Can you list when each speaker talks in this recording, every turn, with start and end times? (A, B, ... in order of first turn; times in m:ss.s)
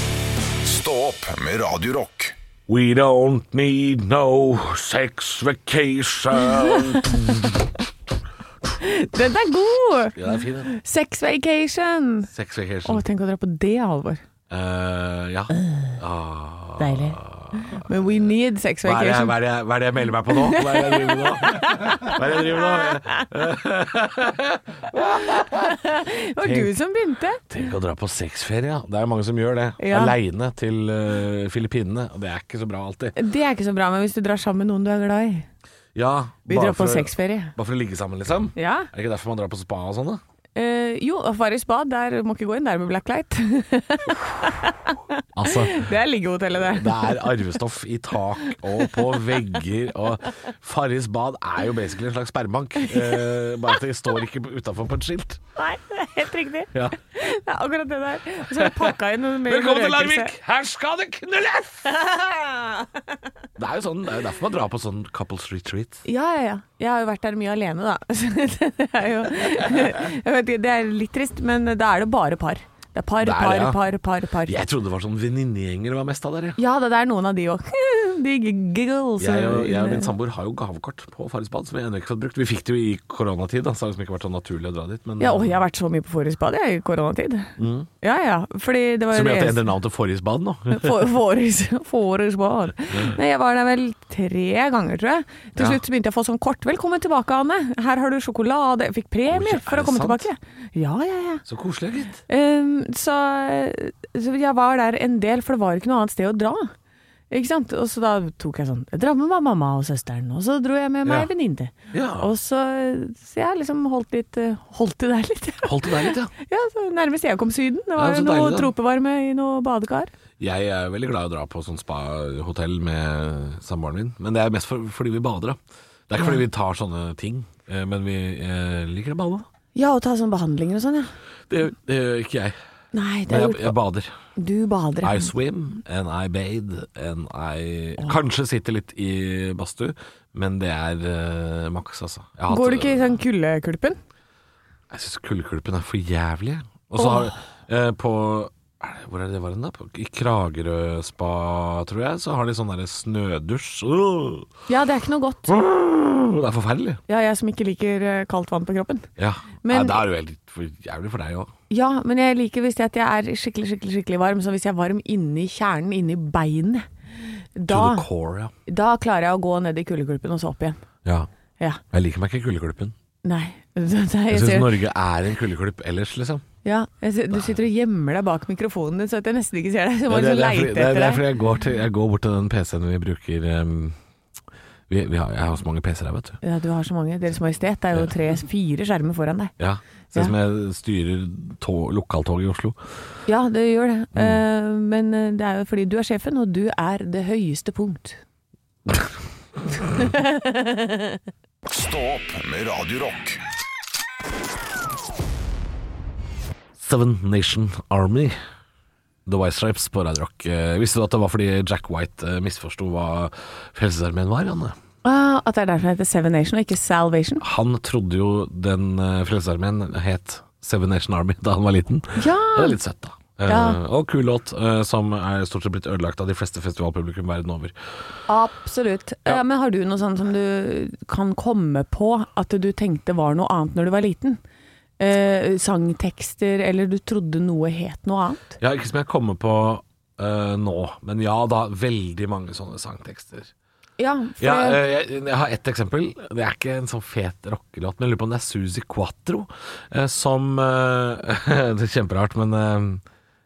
0:00.6-0:02.4 A
0:02.7-0:07.6 B
0:08.8-0:12.3 C
0:10.2-0:10.7 B
0:12.3-0:13.0 B
0:12.8-0:14.2 C
0:14.5-0:17.9 B
0:16.8-0:19.4 C
0:18.8-0:25.8 B
0:20.3-0:23.2 C
0:25.3-0:27.4 C
0:26.4-0:26.8 B
0:27.5-0:33.2 B
0:29.8-0:30.2 C
0:33.2-0:35.5 C
0:36.0-0:40.2 B
0:36.5-0:37.5 C
0:38.6-0:38.9 C
0:40.6-0:47.5 C
0:45.4-0:45.9 B
0:46.6-0:55.4 B
0:55.6-1:00.3 C
0:58.5-1:01.9 B
1:02.0-1:02.8 C
1:03.6-1:06.0 B
1:06.0-1:14.7 C
1:13.2-1:13.8 B
1:14.4-1:16.6 B
1:16.6-1:20.1 C
1:19.2-1:25.6 B
1:25.2-1:29.7 C
1:27.6-1:27.9 B
1:29.1-1:31.1 B
1:30.7-1:41.4 C
1:32.9-1:33.2 B
1:39.3-1:40.3 B
1:41.5-1:42.2 B
1:42.3-1:46.7 C
1:47.3-2:00.1 C
1:51.9-1:52.3 B
1:55.6-1:56.3 B
1:58.0-1:58.7 B
2:00.4-2:09.5 B
2:09.8-2:11.1 C
2:11.5-2:12.6 B
2:12.9-2:13.8 C
2:13.3-2:14.1 B
2:14.4-2:15.3 C
2:15.0-2:23.0 B
2:22.5-2:24.0 C
2:24.9-2:34.5 B
2:27.0-2:27.4 C
2:34.7-2:35.6 C
2:35.5-2:37.0 B
2:37.1-2:39.1 C
2:39.2-2:41.5 B
2:39.6-2:40.0 C
2:41.7-2:46.9 C
2:47.6-2:48.1 C
2:47.7-2:48.5 B
2:48.7-2:50.8 C
2:51.0-2:51.3 B
2:51.9-2:52.9 B
2:53.2-2:54.8 C
2:54.3-2:56.4 B
2:56.6-3:01.2 C
3:00.1-3:04.0 B
3:04.9-3:06.4 B
3:06.4-3:09.5 C
3:09.6-3:12.8 B
3:13.3-3:18.2 C
3:14.2-3:14.4 B
3:19.9-3:21.2 C
3:21.7-3:23.4 A
3:26.8-3:28.4 B
3:29.3-3:34.8 B
3:35.0-3:37.4 C
3:37.4-3:47.7 B
3:42.2-3:42.8 C
3:43.5-3:43.8 C
3:48.3-3:54.4 C
3:55.0-3:58.6 C
3:58.6-4:03.5 B
4:04.0-4:04.8 C
4:04.4-4:13.0 B